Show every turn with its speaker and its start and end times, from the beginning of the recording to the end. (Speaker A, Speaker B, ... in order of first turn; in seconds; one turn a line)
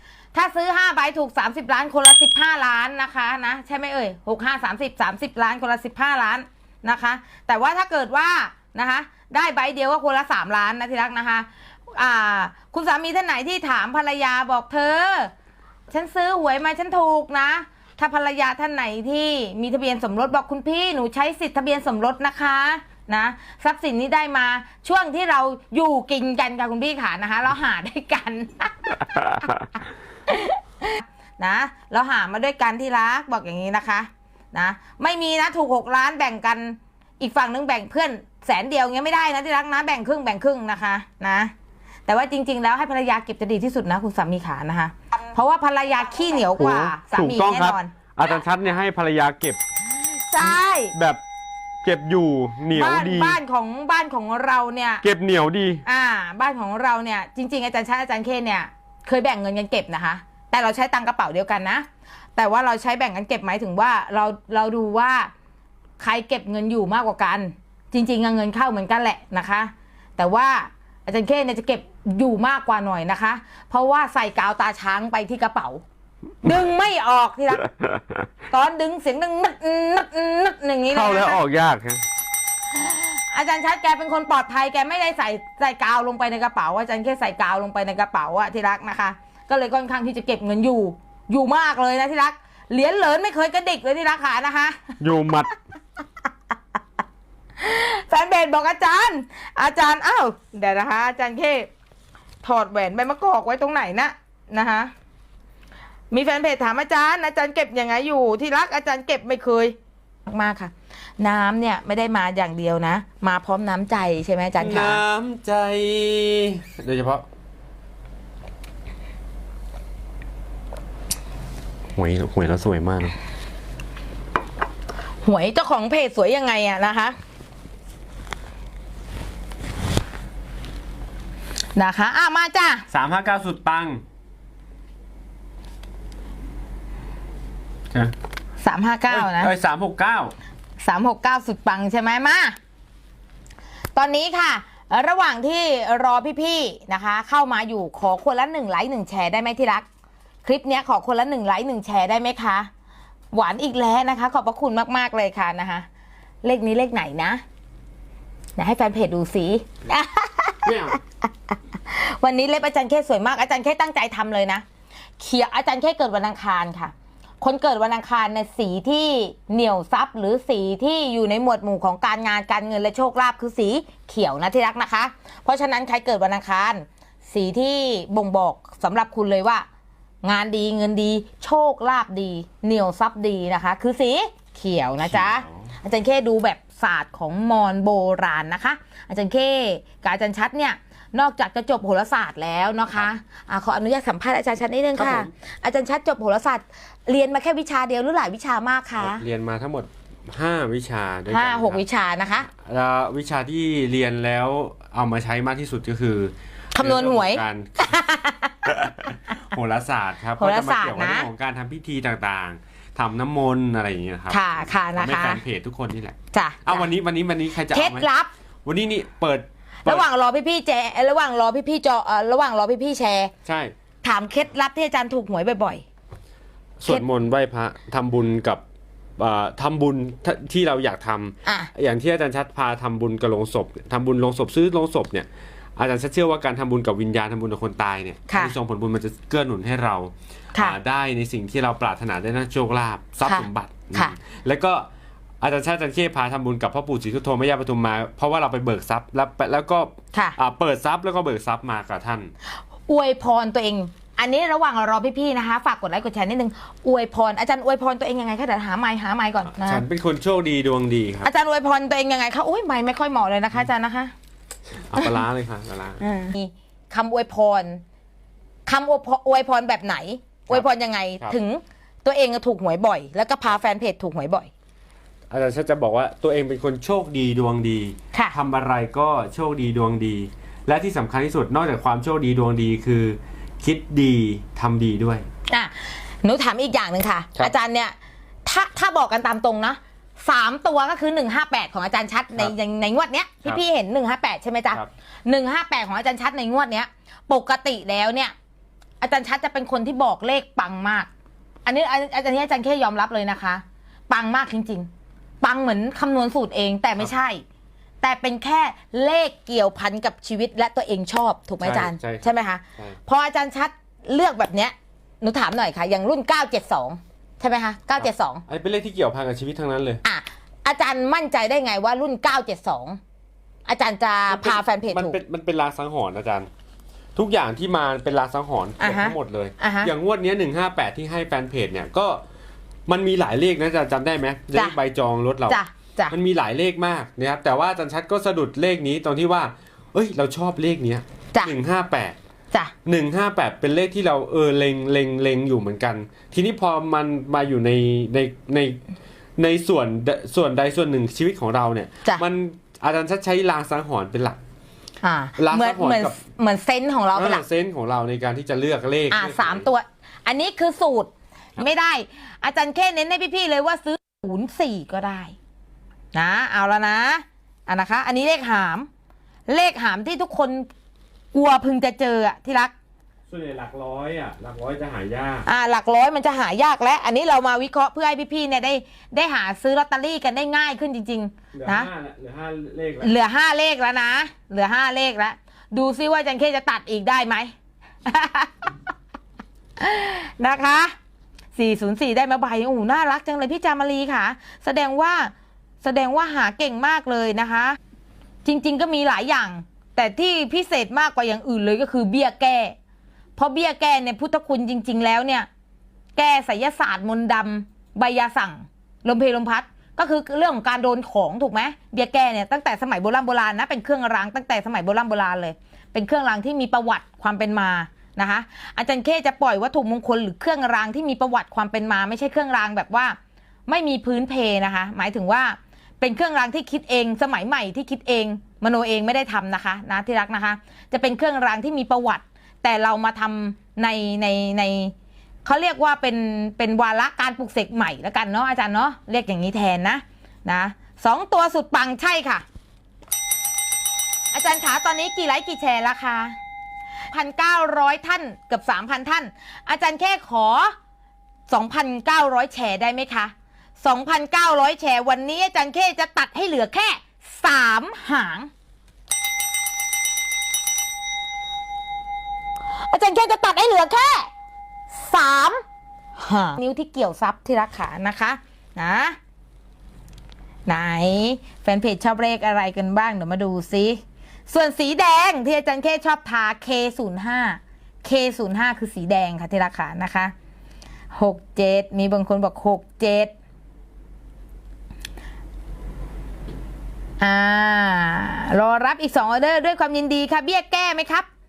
Speaker A: 0.3-15.3
Speaker A: 15.9-29.5
Speaker A: 30.3-41.5
Speaker A: 42.1-47.9
Speaker B: 46.5-49.6
Speaker A: 50.1-50.9
Speaker B: 50.4-51.2
Speaker B: 51.8-53.4
Speaker A: 52.7-55.0
Speaker B: 55.0-55.8
Speaker A: 55.8-65.3
Speaker A: 66.0-75.8
Speaker A: 76.4-77.7
Speaker B: 77.7-78.2
Speaker A: 78.5-81.4
Speaker B: 80.9-82.0
Speaker A: 82.7-95.0
Speaker B: 95.0-95.5
Speaker A: 97.6-101.7
Speaker A: 102.4-104.9
Speaker A: 106.1-109.8
Speaker A: 110.3-115.0
Speaker B: 114.6-117.2
Speaker B: 122.0-123.2
Speaker A: 125.2-127.2
Speaker A: 131.8-132.8
Speaker B: 132.9-134.0
Speaker A: 138.6-139.5
Speaker B: 139.1-140.3
Speaker A: 140.8-142.6
Speaker A: 143.9-149.8
Speaker A: 150.4-152.7
Speaker A: 153.3-155.8
Speaker A: 156.4-157.4
Speaker A: 158.6-160.7
Speaker B: 160.7-161.0
Speaker A: 161.8-164.6
Speaker A: 165.2-179.7
Speaker A: 180.2-199.2
Speaker B: 185.0-185.7
Speaker B: 194.9-195.3
Speaker B: 199.0-201.8
Speaker A: 201.3-202.5
Speaker B: 202.5-207.9
Speaker A: 206.8-209.1
Speaker B: 209.0-218.1
Speaker A: 210.4-211.3
Speaker A: 214.3-215.4
Speaker A: 216.3-216.8
Speaker A: 217.7-218.3
Speaker B: 218.7-220.1
Speaker A: 219.8-223.3
Speaker B: 223.5-223.7
Speaker A: 224.0-225.8
Speaker B: 226.8-228.6
Speaker B: 229.2-244.8
Speaker A: 231.4-231.7
Speaker A: 238.3-238.5
Speaker A: 243.2-244.1
Speaker B: 245.4-252.3
Speaker A: 252.9-259.8
Speaker B: 259.5-261.3
Speaker A: 261.2-264.1
Speaker B: 264.9-266.0
Speaker A: 265.0-265.2
Speaker A: 266.0-267.8
Speaker A: 268.6-274.5
Speaker B: 275.3-285.2
Speaker A: 285.5-298.3
Speaker A: 299.0-301.1
Speaker A: 301.6-304.9
Speaker A: 305.4-307.4
Speaker A: 308.0-318.4
Speaker B: 311.6-313.0
Speaker B: 318.0-320.0
Speaker A: 320.0-323.0
Speaker A: 323.7-325.2
Speaker B: 324.3-326.5
Speaker B: 327.1-332.2
Speaker A: 328.8-329.9
Speaker B: 332.9-335.6
Speaker A: 335.5-336.1
Speaker B: 336.1-342.1
Speaker B: 342.9-348.8
Speaker B: 349.4-354.4
Speaker A: 355.0-357.4
Speaker B: 355.4-356.2
Speaker B: 357.1-359.7
Speaker A: 359.1-365.4
Speaker A: 366.1-368.9
Speaker A: 369.5-370.7
Speaker A: 371.3-372.7
Speaker B: 373.3-375.5
Speaker A: 375.4-381.9
Speaker B: 381.5-383.1
Speaker A: 383.0-387.5
Speaker A: 388.1-388.7
Speaker A: 389.8-390.9
Speaker A: 391.5-397.8
Speaker A: 398.4-402.8
Speaker A: 403.4-405.5
Speaker A: 406.1-434.9
Speaker A: 435.4-442.4
Speaker A: 444.3-446.4
Speaker A: 447.1-450.8
Speaker A: 451.5-458.5
Speaker A: 462.7-464.3
Speaker A: 464.9-465.6
Speaker A: 466.2-469.2
Speaker A: 470.7-480.3
Speaker A: 481.1-483.3
Speaker A: 487.2-491.3